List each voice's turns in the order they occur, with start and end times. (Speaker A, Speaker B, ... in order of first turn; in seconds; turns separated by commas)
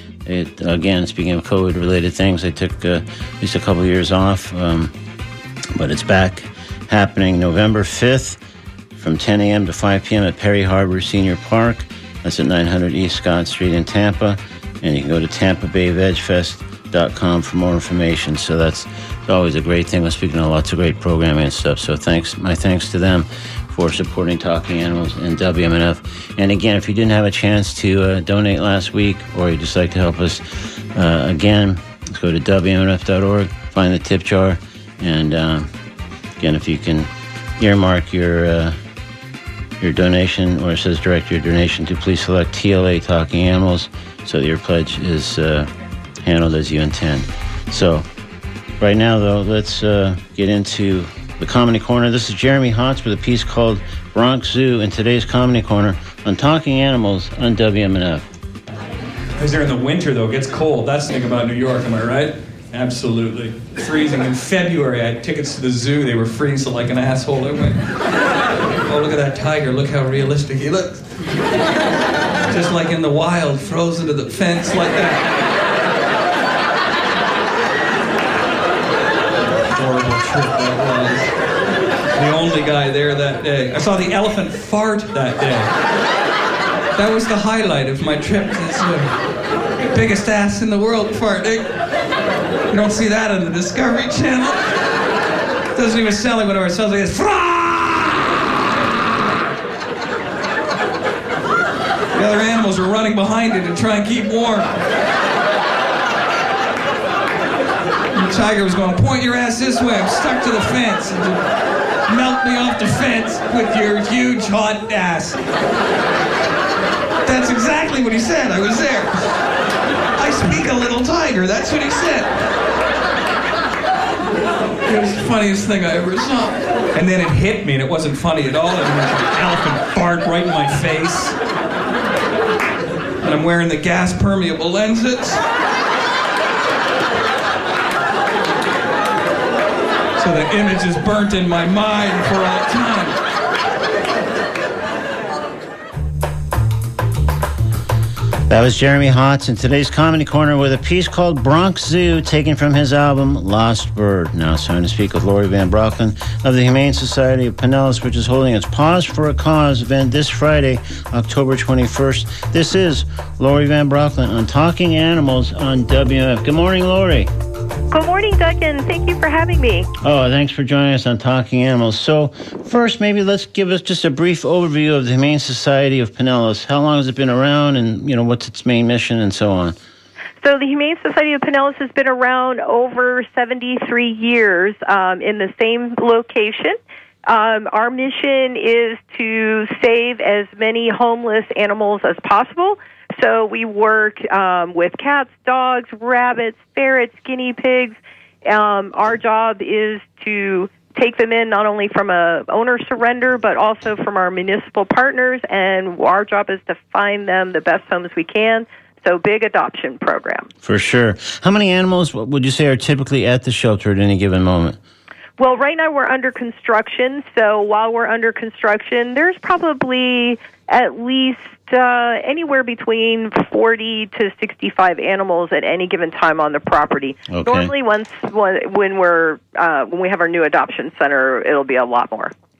Speaker A: 0.2-4.9, Speaker A: 5.7-8.4, Speaker A: 8.9-35.7, Speaker A: 36.4-38.8, Speaker A: 39.8-45.7, Speaker A: 46.2-48.0, Speaker A: 48.8-58.2, Speaker B: 59.4-67.9, Speaker B: 68.8-71.3, Speaker B: 72.5-75.4, Speaker B: 79.7-81.3, Speaker B: 82.1-85.7, Speaker B: 86.9-89.1, Speaker B: 89.9-91.7, Speaker B: 92.7-94.6, Speaker B: 95.7-98.3, Speaker B: 102.1-104.8, Speaker B: 108.1-111.4, Speaker B: 112.1-115.4, Speaker B: 117.2-119.1, Speaker B: 120.2-122.3, Speaker B: 124.8-131.4, Speaker B: 133.2-135.4, Speaker B: 140.1-143.2, Speaker A: 148.5-167.3, Speaker C: 167.9-169.9, Speaker A: 170.0-179.8, Speaker C: 180.4-210.5, Speaker A: 210.6-214.8, Speaker C: 215.4-232.3, Speaker A: 227.3-227.7